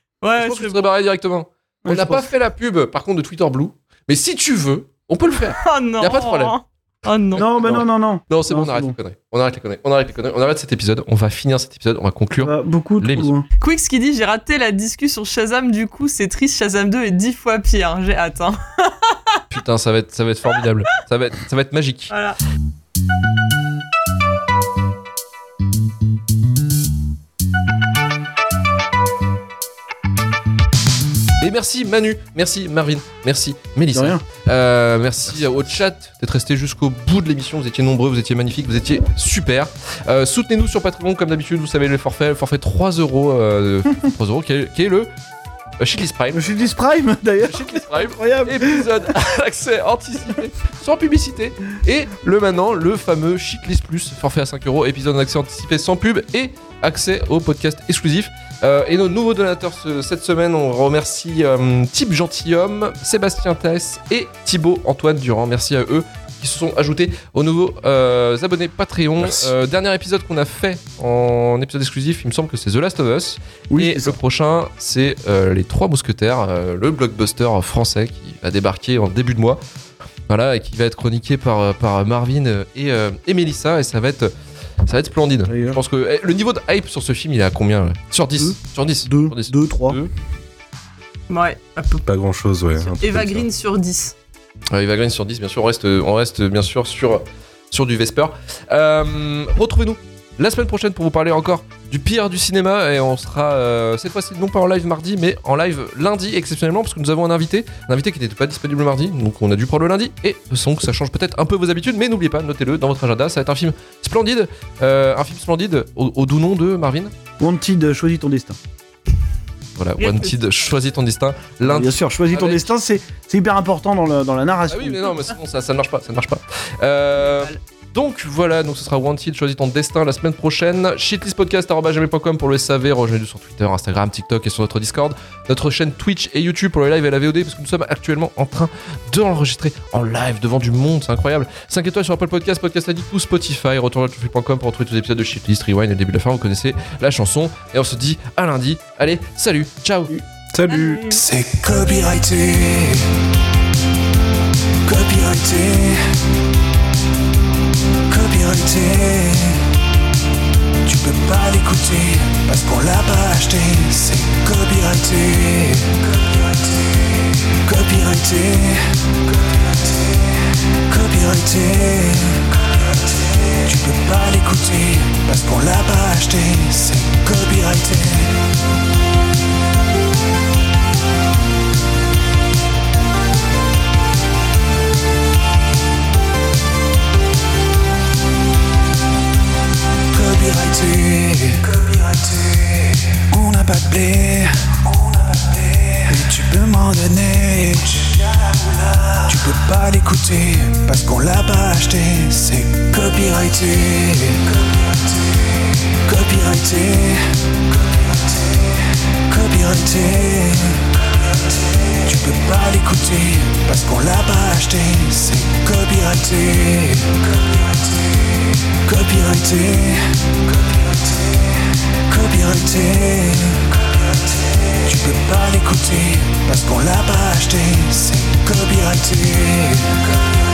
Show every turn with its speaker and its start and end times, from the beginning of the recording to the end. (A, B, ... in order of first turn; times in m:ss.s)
0:00.2-0:00.8 A
0:00.4-0:06.6 B
0:01.8-0:02.3 C
0:05.5-0:07.4 A
0:07.3-0:13.3 B
0:07.4-0:08.9 C
0:12.4-0:13.5 C
0:13.6-0:19.4 A
0:19.5-0:22.1 B
0:22.1-0:22.4 A
0:31.4-0:45.1 B
0:33.9-0:34.2 C
0:45.8-0:46.5 B
0:46.3-0:49.1 C
0:47.5-1:19.6 B
1:13.7-1:14.2 C
1:20.3-1:24.3 B
1:24.8-1:30.1 B
1:25.5-1:25.8 C
1:28.4-1:30.0 C
1:31.3-1:32.0 A
1:32.0-1:33.5 D
1:33.0-1:34.1 A
1:34.7-1:57.1 B
1:57.4-1:58.6 C
1:59.8-2:02.7 B
2:00.0-2:00.7 A
2:01.6-2:05.1 C
2:04.7-2:30.1 B
2:07.2-2:07.6 A
2:30.5-2:31.1 D
2:30.7-2:31.3 A
2:31.1-2:33.1 E
2:34.8-2:36.1 E
2:38.1-2:39.7 E
2:40.8-2:46.1 E
2:47.6-2:49.1 E
2:50.8-2:52.6 E
2:53.6-2:58.4 E
3:10.1-3:24.6 E
3:26.0-3:27.4 E
3:29.3-3:30.9 E
3:32.0-3:37.3 E
3:38.8-3:40.4 E
3:42.1-3:43.8 E
3:44.8-3:50.0 E